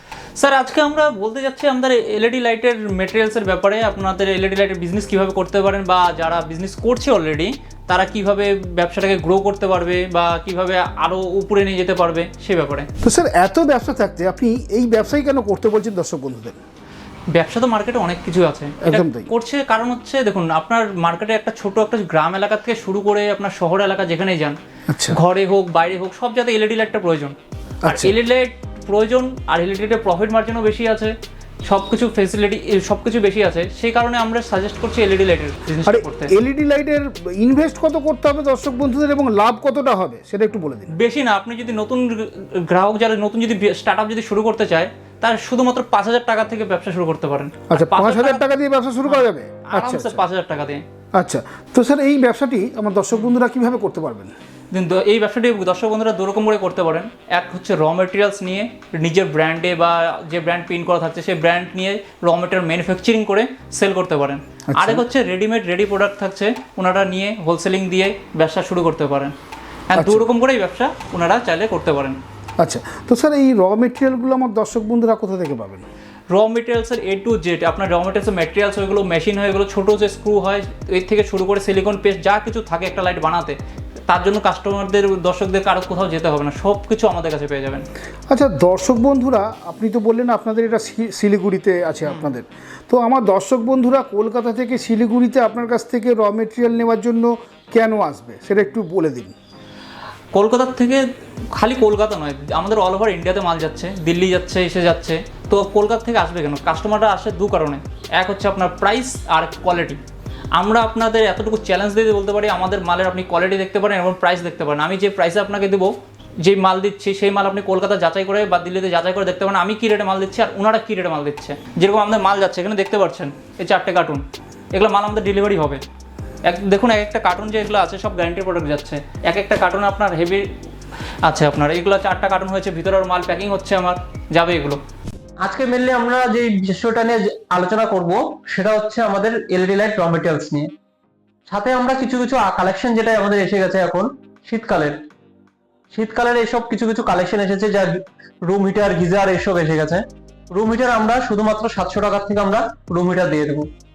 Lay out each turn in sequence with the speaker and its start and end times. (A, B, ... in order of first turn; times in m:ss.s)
0:00.4-0:12.9 A
0:13.0-0:16.6 B
0:17.3-0:36.3 A
0:18.8-0:19.3 B
0:24.9-0:25.2 B
0:27.8-0:28.1 B
0:35.8-0:40.9 B
0:40.9-0:48.5 A
0:47.7-0:50.2 B
0:49.0-0:50.8 A
0:51.2-0:54.3 B
0:54.7-1:09.3 A
1:04.7-1:05.0 B
1:09.9-1:12.2 A
1:09.9-1:10.2 B
1:12.6-1:15.8 B
1:16.3-1:23.6 A
1:24.1-1:27.8 A
1:28.3-1:39.3 B
1:40.3-1:50.0 A
1:50.5-2:05.8 A
2:06.4-2:10.4 A
2:11.2-2:14.8 A
2:15.4-2:20.7 C
2:21.5-2:25.0 C
2:25.9-2:33.7 C